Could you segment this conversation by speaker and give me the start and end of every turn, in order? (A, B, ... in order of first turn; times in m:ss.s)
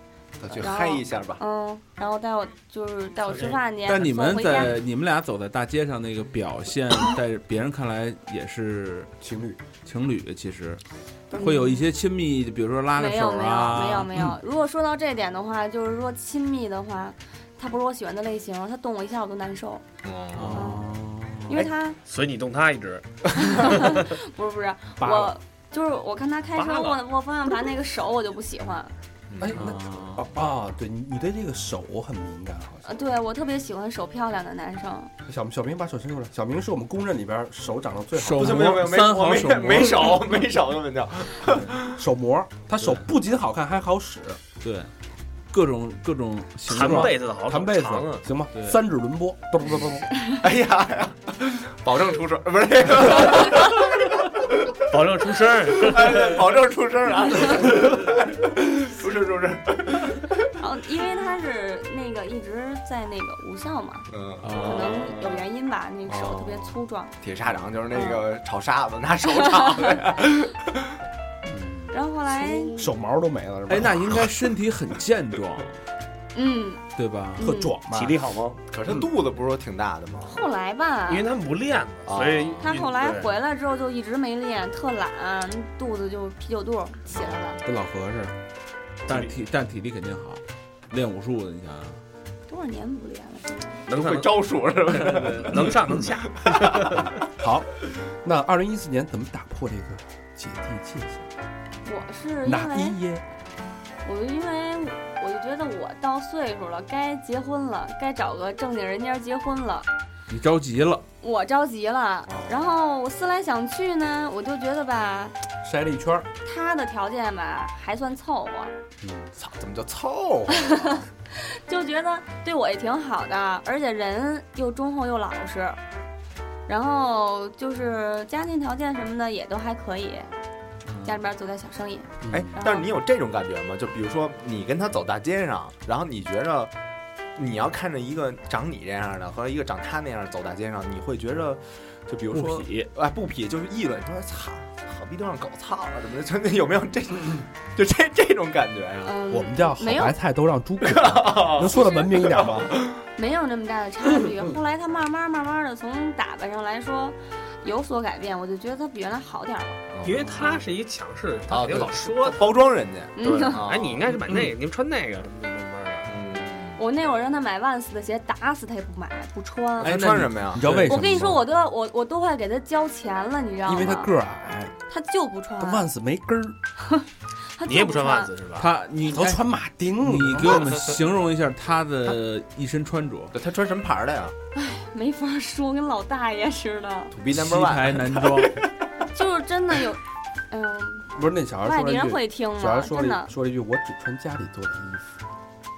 0:00.4-0:01.4 A
0:00.5-0:04.8 B
0:03.8-0:09.1 C
0:09.2-0:09.6 D
0:09.8-0:14.3 C
0:11.3-0:11.8 B
0:13.0-0:19.8 B
0:20.0-0:20.8 A
0:20.3-0:21.6 C
0:20.5-0:20.9 B
0:21.5-0:22.0 B
0:22.0-0:24.0 E
0:23.4-0:28.9 B
0:25.0-0:25.4 D
0:26.5-0:27.0 E
0:29.3-0:29.6 A
0:29.4-0:32.9 D
0:29.5-0:30.3 C
0:32.8-0:35.1 B
0:35.2-0:38.8 D
0:38.1-0:40.5 C
0:38.3-0:41.9 A
0:41.8-0:44.4 D
0:42.8-0:43.0 C
0:44.6-0:44.9 C
0:45.5-0:47.1 C
0:46.7-0:48.2 E
0:46.8-0:50.1 D
0:48.5-0:48.8 C
0:50.4-0:54.0 A
0:54.9-0:56.4 E
0:55.8-1:00.3 A
1:00.6-1:07.1 B
1:04.1-1:05.4 A
1:04.4-1:05.0 C
1:04.8-1:05.1 E
1:06.1-1:10.8 A
1:07.9-1:08.2 B
1:11.4-1:11.9 D
1:11.9-1:12.8 B
1:12.4-1:12.9 E
1:12.7-1:14.3 D
1:13.7-1:15.8 C
1:16.3-1:16.8 B
1:17.0-1:17.5 C
1:17.4-1:17.8 B
1:17.4-1:18.2 D
1:17.9-1:18.6 E
1:18.7-1:20.5 A
1:20.2-1:21.3 B
1:21.1-1:23.4 E
1:22.0-1:22.8 A
1:22.6-1:27.6 B
1:27.2-1:27.4 A
1:27.6-1:28.4 D
1:29.0-1:29.3 E
1:29.1-1:32.0 C
1:32.5-1:33.9 B
1:33.9-1:37.0 A
1:33.9-1:37.2 E
1:37.2-1:37.7 D
1:38.2-1:41.3 D
1:41.8-1:43.0 B
1:42.4-1:43.2 D
1:44.0-1:49.9 B
1:50.3-1:51.0 C
1:51.2-1:55.3 B
1:52.3-1:52.7 A
1:55.6-1:56.3 D
1:56.4-1:58.7 B
1:59.0-1:59.3 D
1:59.3-2:01.1 A
2:00.5-2:05.8 B
2:06.7-2:10.3 B
2:10.8-2:11.2 C
2:11.0-2:12.9 B
2:12.2-2:12.6 D
2:12.3-2:16.7 A
2:17.3-2:29.2 A
2:22.3-2:22.8 C
2:29.0-2:30.2 B
2:29.3-2:32.7 D
2:30.8-2:33.0 A
2:33.2-2:39.8 B
2:39.9-2:40.6 A
2:40.0-2:42.6 E
2:41.5-2:44.1 A
2:43.2-2:43.6 B
2:43.2-2:46.3 E
2:46.0-2:46.8 A
2:46.8-2:50.0 B
2:49.8-2:50.8 A
2:49.8-2:51.2 C
2:50.5-2:51.4 D
2:50.8-2:54.1 B
2:53.6-2:54.7 D
2:54.9-2:55.8 B
2:55.6-2:56.6 D
2:56.8-2:58.3 B
2:57.6-2:58.7 E
2:58.6-2:59.4 C
2:59.1-3:00.8 D
3:00.0-3:03.3 C
3:03.3-3:04.3 A
3:04.5-3:07.1 B
3:07.1-3:08.7 A
3:07.3-3:08.6 C
3:09.1-3:13.3 B
3:11.1-3:15.2 D